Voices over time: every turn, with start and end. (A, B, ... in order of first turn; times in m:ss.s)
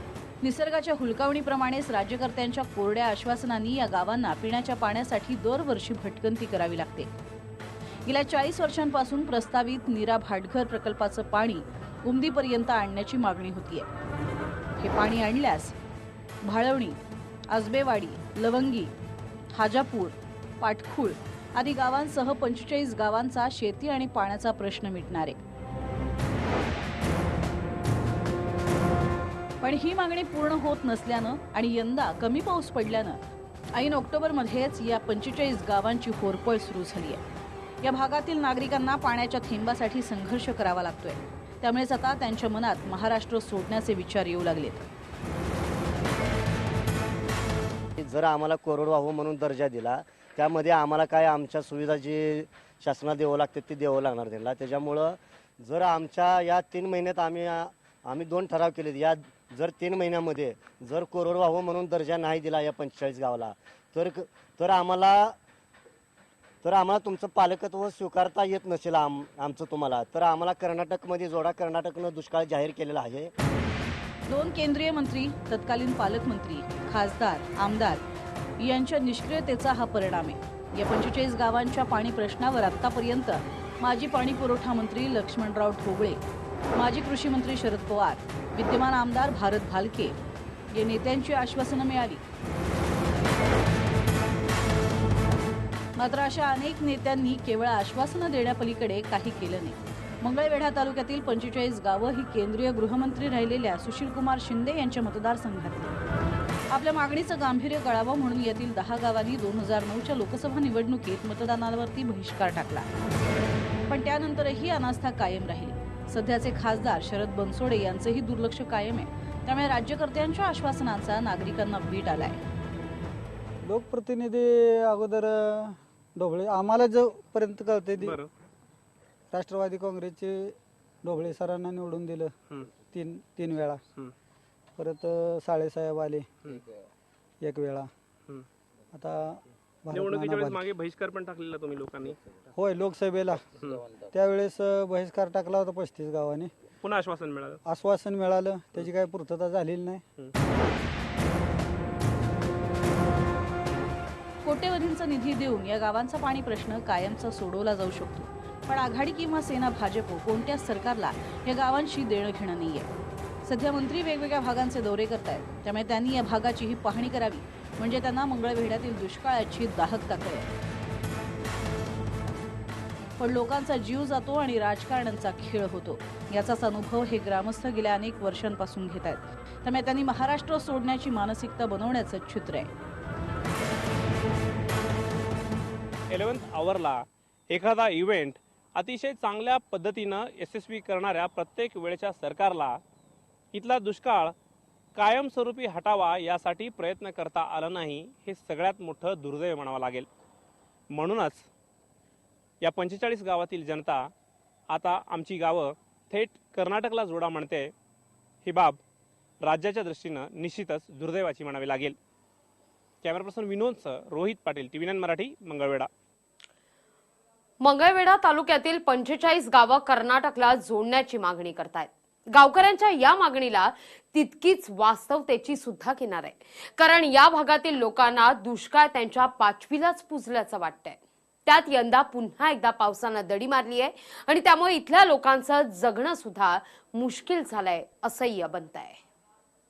0:00.4-0:07.1 A
0:08.1-0:13.9 A
0:14.8-0:15.8 A
0:16.4-0:17.0 A
0:17.5-0:18.9 A
0:19.5-0:25.4 A
0:29.6-0:33.2 A
0:33.8-0:37.2 A
0:37.8-0:44.9 A
0:48.0-1:05.4 B
1:06.6-1:13.3 B
1:14.3-1:18.0 A
1:18.6-1:26.2 A
1:26.8-1:30.2 A
1:30.7-1:32.2 A
1:36.0-1:45.9 A
1:46.7-1:52.9 A
1:53.9-2:02.4 A
2:03.6-2:08.2 C
2:08.0-2:08.3 D
2:09.3-2:12.3 C
2:12.9-2:13.8 C
2:14.8-2:16.3 C
2:17.4-2:17.9 C
2:18.9-2:20.6 C
2:19.9-2:22.2 D
2:22.6-2:23.4 C
2:24.0-2:26.5 C
2:26.8-2:27.6 D
2:27.6-2:30.0 C
2:34.4-2:42.9 A
2:43.4-2:50.5 A
2:53.2-3:02.7 A
3:06.1-3:12.8 D
3:13.5-3:14.3 D
3:15.0-3:20.1 D
3:20.9-3:21.4 D
3:22.6-3:24.1 D
3:24.7-3:27.7 D
3:28.4-3:28.8 D
3:29.4-3:32.0 D
3:33.0-3:35.9 D
3:37.6-3:59.0 E